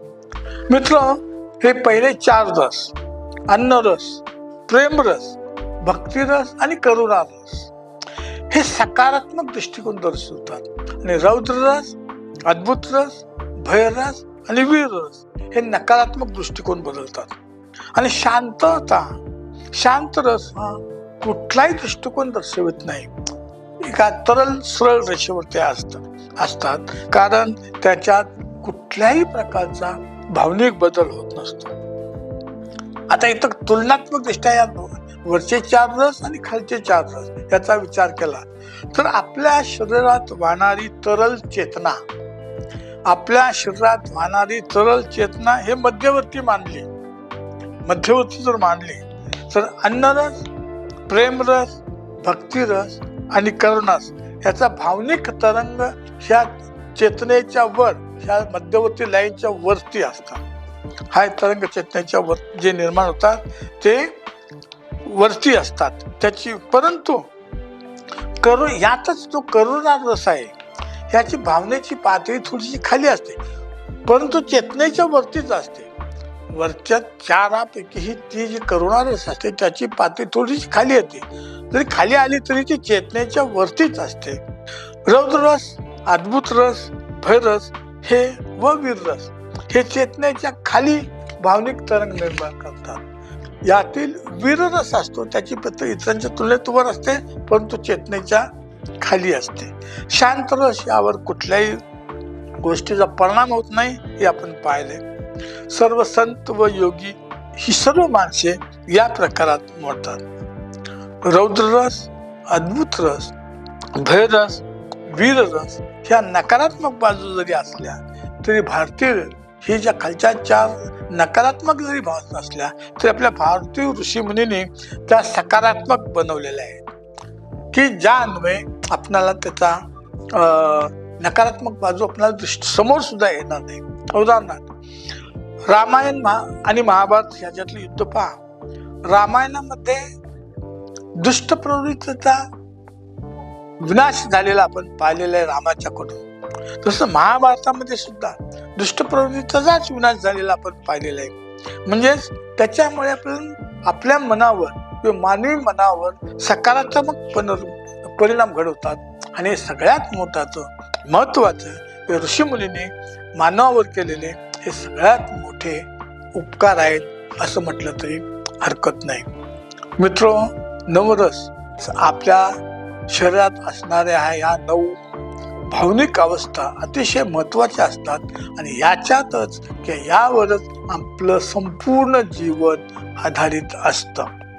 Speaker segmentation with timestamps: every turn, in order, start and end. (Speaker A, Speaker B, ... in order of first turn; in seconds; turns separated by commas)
Speaker A: 0.7-2.9, Speaker A: 3.5-7.7, Speaker A: 8.5-17.4, Speaker A: 17.9-19.2, Speaker A: 19.7-23.1, Speaker A: 23.8-31.7, Speaker A: 33.1-42.0, Speaker A: 43.1-46.9, Speaker A: 47.8-50.4, Speaker A: 51.1-60.4, Speaker A: 61.1-64.2, Speaker A: 65.0-67.3, Speaker A: 68.4-70.5, Speaker A: 71.1-73.4, Speaker A: 74.0-75.9, Speaker A: 76.5-84.4, Speaker A: 85.0-93.0, Speaker A: 93.6-101.8, Speaker A: 102.6-105.0, Speaker A: 105.6-110.2, Speaker A: 111.2-113.3, Speaker A: 113.9-126.8, Speaker A: 127.7-129.8, Speaker A: 130.3-134.7, Speaker A: 135.7-138.4, Speaker A: 139.1-140.0, Speaker A: 141.2-142.4, Speaker A: 143.8-146.2, Speaker A: 146.8-169.3, Speaker A: 170.0-172.5, Speaker A: 173.1-175.0, Speaker A: 175.7-184.3